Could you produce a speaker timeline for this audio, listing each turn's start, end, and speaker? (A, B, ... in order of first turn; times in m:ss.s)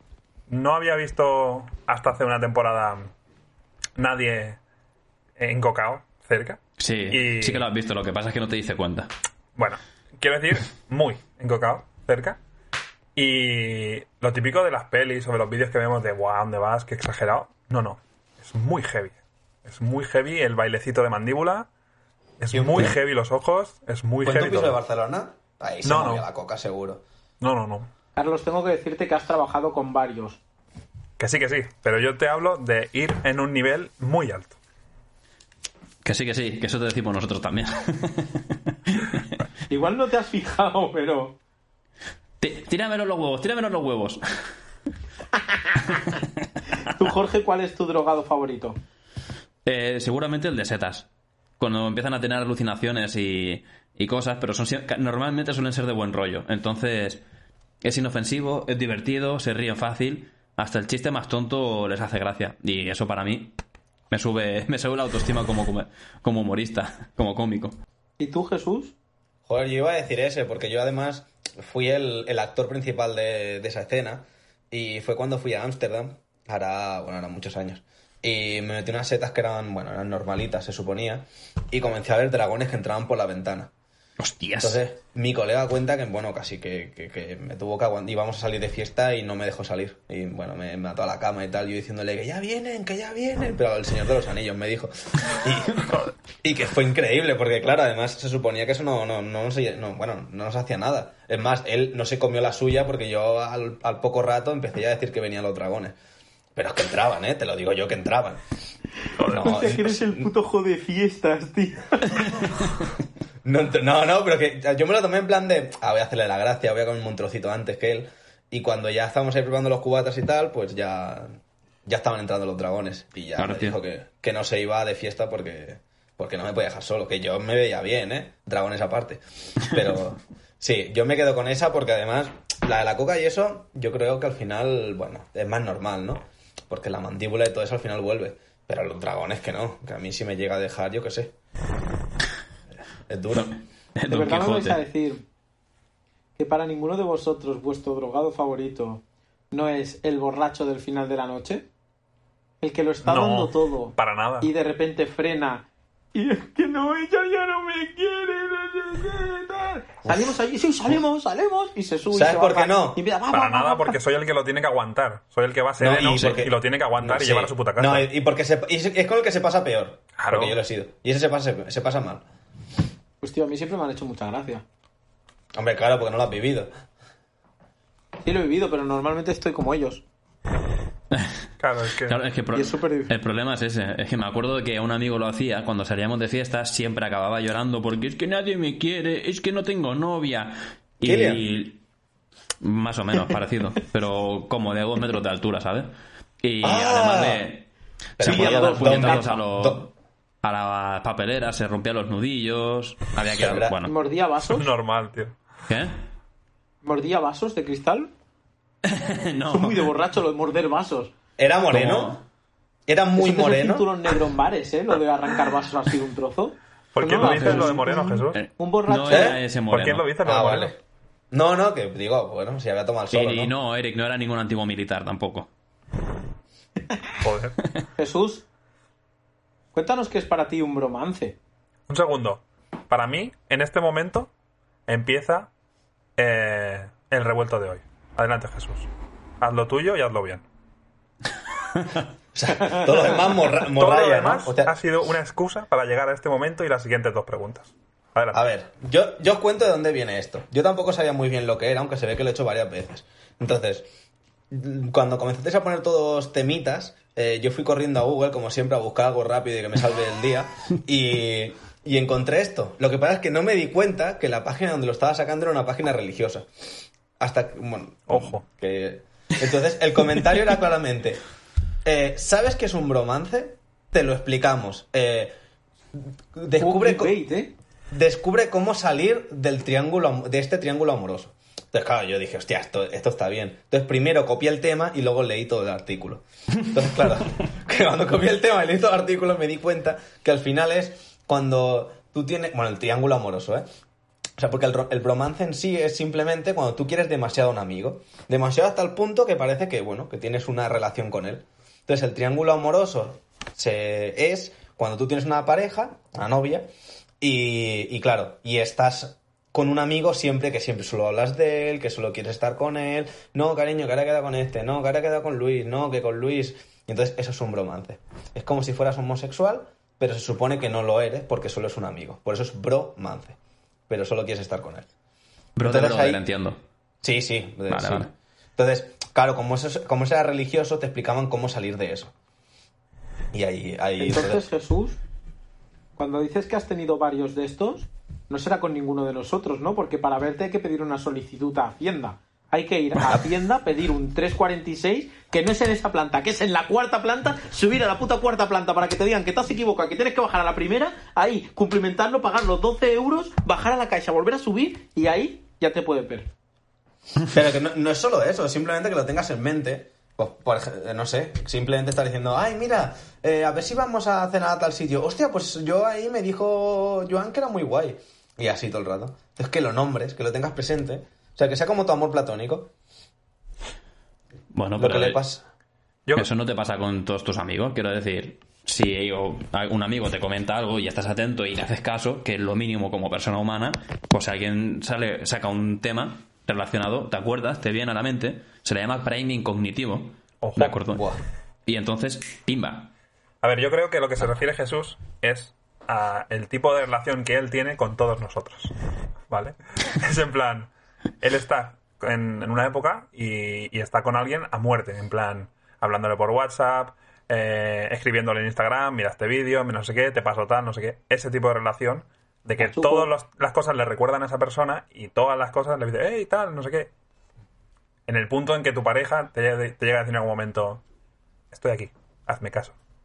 0:00.5-0:03.1 A
0:04.0-0:04.6 A
0:05.4-0:07.6 A
0:06.8-0:09.1 B
0:09.6-0:12.4 A
0:13.1-0:21.7 A
0:22.4-0:24.8 A
0:22.5-0:23.0 C
0:24.2-0:27.0 C
0:25.8-0:26.2 A
0:27.4-0:27.9 A
0:28.2-0:30.4 D
0:31.2-0:34.6 A
0:36.0-0:39.2 B
0:39.7-0:41.4 D
0:42.4-0:44.2 B
0:46.0-0:46.2 B
0:46.9-0:48.8 D
0:49.6-0:51.1 B
0:51.6-0:57.2 B
0:57.8-1:03.6 B
1:04.1-1:07.8 B
1:08.2-1:08.9 D
1:09.5-1:23.7 C
1:24.2-1:24.8 B
1:24.6-1:46.0 C
1:46.6-1:48.4 C
1:49.2-1:49.6 A
1:49.2-1:50.3 C
1:49.3-1:52.4 D
1:53.4-2:01.3 C
2:01.8-2:21.3 C
2:03.4-2:03.8 B
2:23.1-2:23.5 C
2:23.3-2:24.8 B
2:24.1-2:25.2 D
2:26.4-2:31.7 D
2:32.6-2:44.0 D
2:33.0-2:34.5 A
2:40.0-2:40.3 C
2:42.1-2:43.0 C
2:43.3-2:48.1 A
2:45.8-2:52.2 C
2:50.2-2:50.6 A
2:53.2-2:54.6 D
2:55.6-2:56.7 C
2:58.2-3:00.0 D
3:01.1-3:01.4 B
3:01.6-3:02.2 A
3:02.0-3:11.8 B
3:02.5-3:03.1 D
3:11.0-3:11.4 C
3:12.6-3:15.9 B
3:16.4-3:19.9 B
3:16.6-3:17.4 C
3:18.2-3:19.9 C
3:18.2-3:19.4 D
3:20.4-3:23.9 B
3:23.3-3:23.8 C
3:23.8-3:24.7 D
3:24.4-3:25.4 A
3:25.7-3:26.0 B
3:26.8-3:28.1 D
3:28.8-3:29.9 B
3:29.5-3:31.1 D
3:31.4-3:32.2 C
3:31.7-3:32.2 B
3:32.9-3:33.9 C
3:33.2-3:39.4 D
3:36.9-3:38.4 A
3:37.2-3:37.8 B
3:38.3-3:40.1 B
3:39.1-3:39.4 C
3:39.7-3:40.7 A
3:40.2-3:40.8 C
3:41.3-3:43.5 C
3:43.1-3:45.5 B
3:47.2-3:47.6 A
3:48.0-3:48.4 D
3:49.7-3:51.4 D
3:51.9-3:54.3 A
3:54.9-3:55.5 A
3:56.2-3:58.9 A
3:59.4-4:00.4 A
4:02.3-4:04.8 C
4:03.6-4:08.4 A
4:08.3-4:13.9 C
4:14.5-4:26.5 C
4:27.2-4:31.2 C
4:28.1-4:28.4 A
4:31.8-4:35.3 C
4:36.0-4:37.1 C
4:36.6-4:37.5 D
4:37.9-4:53.6 C
4:54.4-5:06.7 C
5:07.2-5:23.4 C
5:23.9-5:24.9 C
5:25.6-5:26.6 B
5:25.6-5:26.2 C
5:27.0-5:32.1 C
5:27.7-5:28.1 B
5:33.3-5:34.4 C
5:34.0-5:35.0 D
5:36.0-5:56.3 D
5:57.3-6:12.7 C
6:14.5-6:15.2 B
6:14.8-6:15.4 C
6:16.2-6:31.1 B
6:30.4-6:30.8 A
6:30.9-6:31.2 C
6:31.6-6:32.9 B
6:33.4-6:38.7 A
6:39.3-6:56.9 A
6:52.6-6:53.1 D
6:58.1-7:00.8 A
7:01.5-7:02.8 A